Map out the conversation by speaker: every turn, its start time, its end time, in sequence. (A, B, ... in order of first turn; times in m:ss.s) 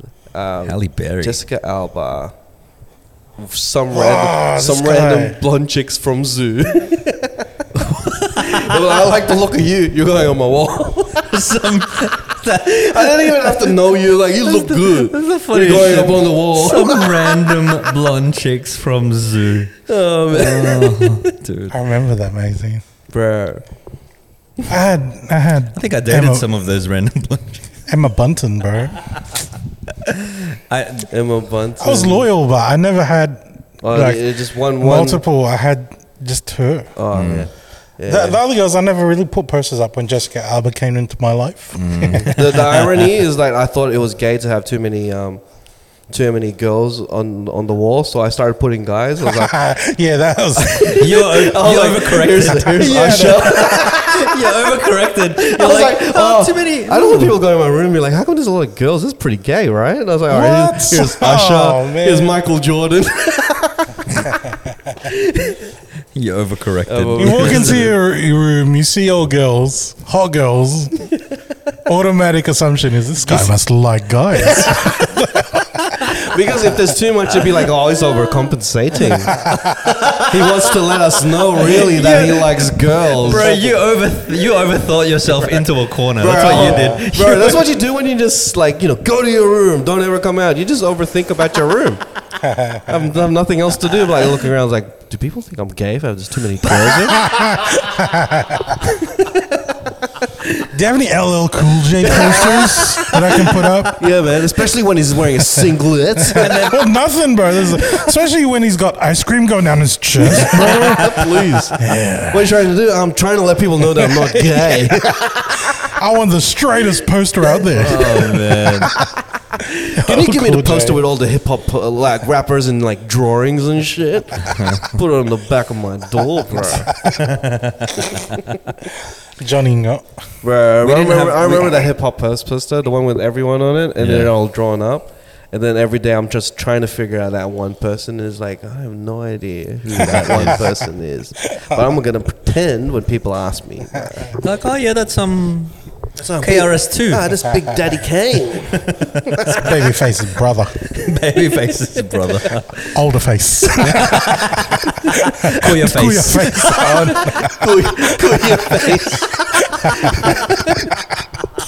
0:00.3-0:02.4 A
0:00.6-0:01.4 B
0:03.4-0:07.5 A
0:03.9-0:05.4 C
0:07.8-0:08.8 B
0:08.4-0:11.3 A
0:11.2-0:13.7 B
0:12.7-0:17.6 A
0:14.4-0:21.8 B
0:19.9-0:21.2 A
0:21.7-0:22.8 C
0:23.1-0:23.7 A
0:24.7-0:26.5 C
0:25.8-0:27.7 B
0:27.9-0:29.1 C
0:30.1-0:31.1 B
0:31.1-0:32.3 A
0:31.8-0:36.9 C
0:33.8-0:35.2 A
0:37.0-0:38.4 A
0:37.1-0:37.5 B
0:38.1-0:42.4 C
0:41.8-0:42.9 B
0:42.2-0:45.4 A
0:46.0-0:49.6 A
0:49.2-0:50.9 C
0:50.6-0:54.3 A
0:50.9-0:57.3 B
0:52.8-0:53.8 C
0:55.4-1:04.0 A
1:00.3-1:02.4 C
1:06.1-1:07.8 B
1:06.9-1:08.0 A
1:07.2-1:11.1 C
1:11.9-1:15.6 C
1:14.4-1:15.0 A
1:16.2-1:19.4 A
1:19.8-1:20.4 B
1:20.3-1:23.8 A
1:21.6-1:22.5 B
1:21.9-1:22.7 C
1:23.2-1:27.6 B
1:26.2-1:32.0 A
1:26.6-1:27.0 C
1:32.4-1:32.9 C
1:32.9-1:37.3 A
1:37.2-1:38.8 C
1:40.7-1:44.1 C
1:42.1-1:43.0 A
1:42.2-1:43.0 B
1:44.0-1:46.8 A
1:46.4-1:46.8 B
1:46.6-1:51.2 C
1:50.3-1:55.9 A
1:50.5-1:51.3 B
1:51.8-1:52.7 C
1:54.0-1:55.1 C
1:55.7-1:58.3 C
1:57.8-2:06.9 A
1:57.8-1:58.9 B
2:00.0-2:01.0 C
2:04.5-2:05.0 B
2:07.0-2:08.4 B
2:09.4-2:10.1 C
2:10.4-2:24.4 A
2:10.8-2:11.8 B
2:14.0-2:14.3 B
2:20.0-2:20.6 B
2:24.4-2:25.9 B
2:26.2-2:29.7 A
2:26.4-2:27.5 B
2:28.8-2:29.6 B
2:29.5-2:30.9 C
2:31.0-2:33.0 B
2:32.9-2:34.2 C
2:33.6-2:37.6 B
2:35.6-2:37.6 C
2:37.3-2:40.4 A
2:38.8-2:40.4 B